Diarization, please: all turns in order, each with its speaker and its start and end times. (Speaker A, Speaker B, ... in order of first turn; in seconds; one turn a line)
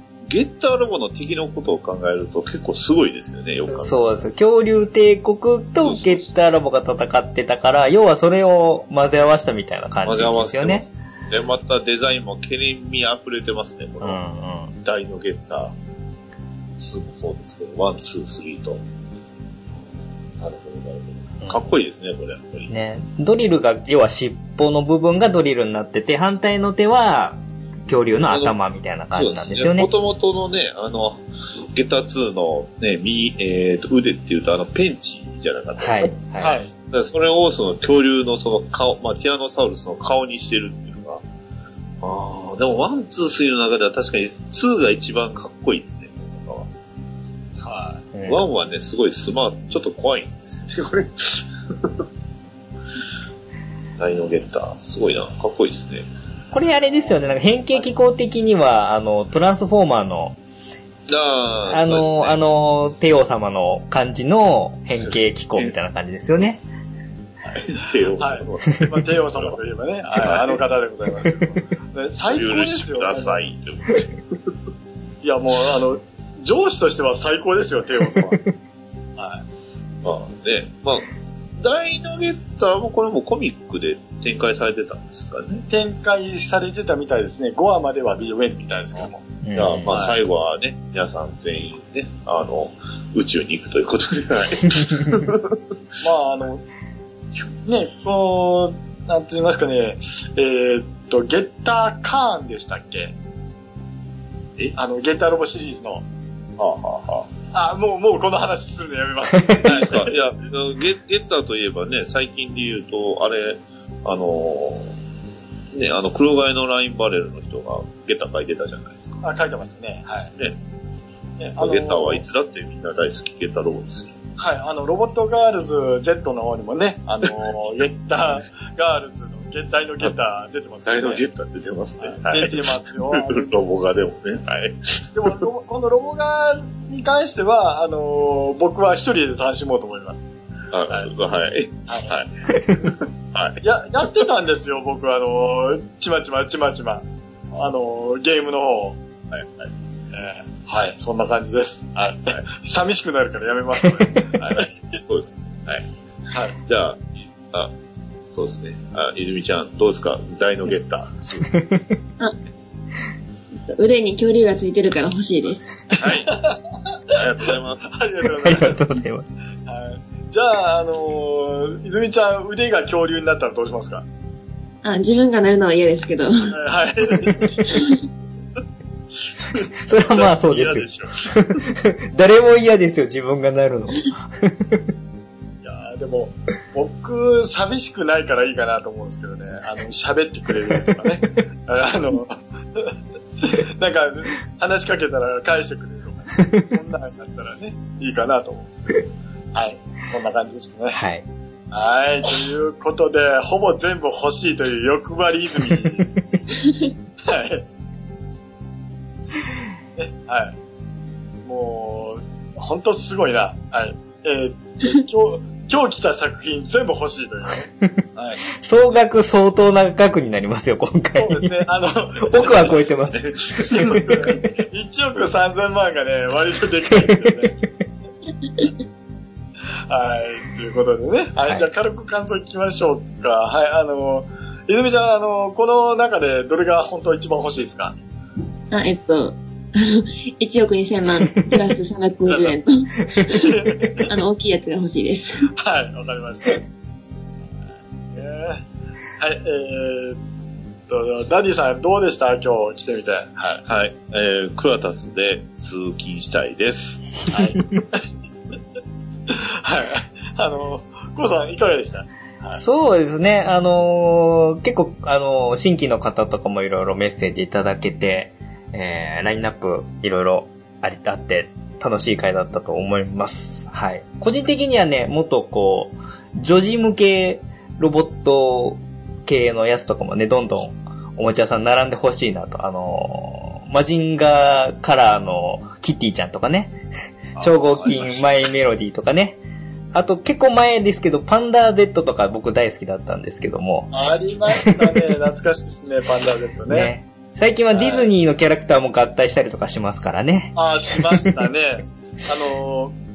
Speaker A: 0.2-4.0
Speaker B: 3.7-10.8
Speaker A: 5.8-6.3
Speaker A: 10.0-14.2
Speaker B: 14.0-14.7
Speaker A: 14.8-15.7
Speaker A: 16.8-18.8
Speaker A: 20.4-22.7
Speaker B: 22.7-29.9
Speaker A: 28.3-28.6
Speaker A: 29.1-36.1
Speaker B: 35.8-36.6
Speaker C: 36.4-36.7
Speaker A: 36.9-41.2
Speaker A: 42.0-46.7
Speaker C: 47.6-48.0
Speaker B: 48.1-48.4
Speaker A: 48.2-52.0
Speaker A: 54.0-56.0
Speaker B: 56.5-60.4
Speaker A: 61.1-62.4
Speaker B: 61.7-66.6
Speaker A: 65.0-65.7
Speaker A: 67.5-69.6
Speaker C: 68.2-73.4
Speaker A: 70.2-70.6
Speaker A: 72.3-74.5
Speaker C: 75.2-78.4
Speaker C: 79.2-79.4
Speaker A: 80.0-85.6
Speaker C: 85.7-89.2
Speaker B: 89.4-90.0
Speaker A: 89.5-95.6
Speaker C: 96.0-96.6
Speaker C: 97.7-103.1
Speaker C: 104.8-106.0
Speaker A: 106.6-107.3
Speaker C: 107.5-110.2
Speaker B: 109.3-109.8
Speaker A: 109.6-114.9
Speaker A: 115.7-119.2
Speaker C: 119.2-120.3
Speaker C: 121.4-122.2
Speaker A: 121.6-124.2
Speaker C: 124.4-131.2
Speaker A: 130.8-135.4
Speaker C: 132.0-133.6
Speaker C: 135.2-140.2
Speaker A: 140.7-142.3
Speaker C: 141.9-142.1
Speaker B: 142.5-142.8
Speaker A: 143.3-143.6
Speaker C: 143.6-149.0
Speaker A: 149.3-149.7
Speaker C: 150.1-154.7
Speaker A: 154.5-155.9
Speaker C: 156.3-156.6
Speaker A: 156.6-157.7
Speaker A: 158.2-161.5
Speaker B: 161.4-162.0
Speaker D: 163.7-165.7
Speaker A: 165.9-166.4
Speaker C: 166.0-166.6
Speaker A: 167.1-167.9
Speaker C: 167.9-168.9
Speaker B: 168.4-169.3
Speaker C: 169.7-174.1
Speaker D: 174.8-176.6
Speaker C: 176.5-177.9
Speaker A: 179.4-181.3
Speaker B: 179.8-184.8
Speaker C: 185.6-201.0
Speaker B: 190.7-191.0
Speaker B: 196.3-196.7
Speaker B: 200.9-201.2
Speaker C: 201.7-206.5
Speaker B: 206.0-206.4
Speaker C: 207.2-207.6
Speaker C: 209.9-210.6
Speaker C: 211.4-217.7
Speaker A: 218.2-218.4
Speaker B: 218.5-221.6
Speaker C: 221.1-222.9
Speaker B: 222.2-224.1
Speaker A: 222.4-224.4
Speaker C: 223.6-227.6
Speaker C: 229.9-237.9
Speaker B: 231.4-231.7
Speaker D: 238.7-245.5
Speaker C: 242.3-242.6
Speaker C: 243.3-244.1
Speaker C: 245.5-246.7
Speaker C: 248.1-248.6
Speaker C: 249.2-250.2
Speaker C: 250.9-253.6
Speaker A: 253.7-257.2
Speaker C: 257.3-258.0
Speaker C: 259.3-262.6
Speaker B: 262.5-286.8
Speaker A: 287.3-288.5
Speaker B: 287.4-289.4
Speaker B: 289.9-295.0
Speaker C: 293.9-296.9
Speaker B: 296.7-301.4
Speaker C: 297.7-298.1
Speaker C: 300.6-302.9